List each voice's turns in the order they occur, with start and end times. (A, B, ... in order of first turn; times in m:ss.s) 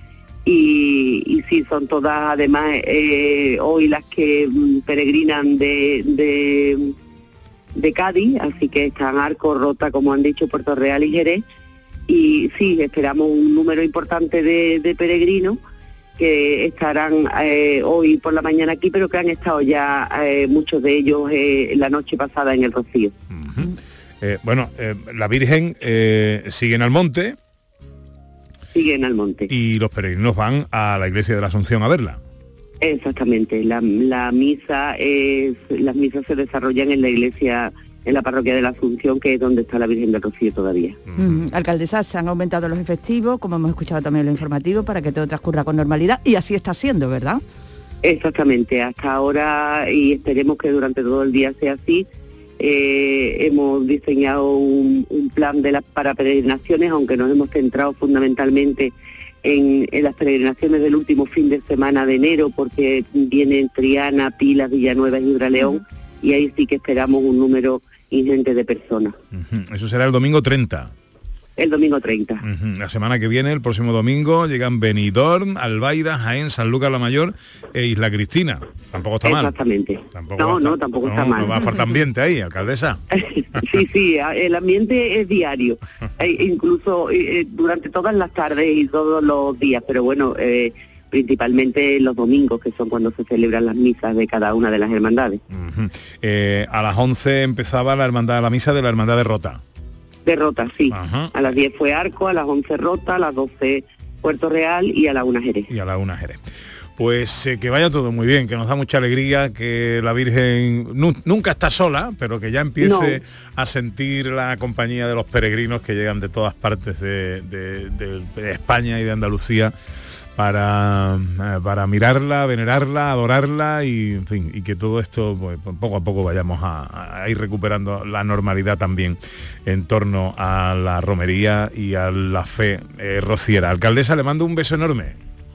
0:00.4-0:06.9 A
0:07.8-0:11.4 A
0:12.1-0:15.6 A
0:16.2-0:23.1 A
0:23.3-0:27.4 B
0:28.7-0:29.5 A
0:29.5-0:32.2 B
0:32.8-0:41.0 A
0:41.1-0:41.5 B
0:41.2-0:47.4 C
0:48.0-0:52.1 A
0:52.6-0:58.9 A
0:59.4-1:09.2 A
1:09.3-1:10.9 B
1:11.6-1:12.4 A
1:12.4-1:19.6 B
1:19.2-1:21.6 A
1:20.1-1:23.0 B
1:23.1-1:35.4 A
1:35.5-1:39.6 B
1:40.3-1:45.7 A
1:40.9-1:41.3 B
1:45.7-1:46.4 B
1:47.0-1:59.7 B
1:52.8-1:53.2 A
2:00.4-2:15.2 B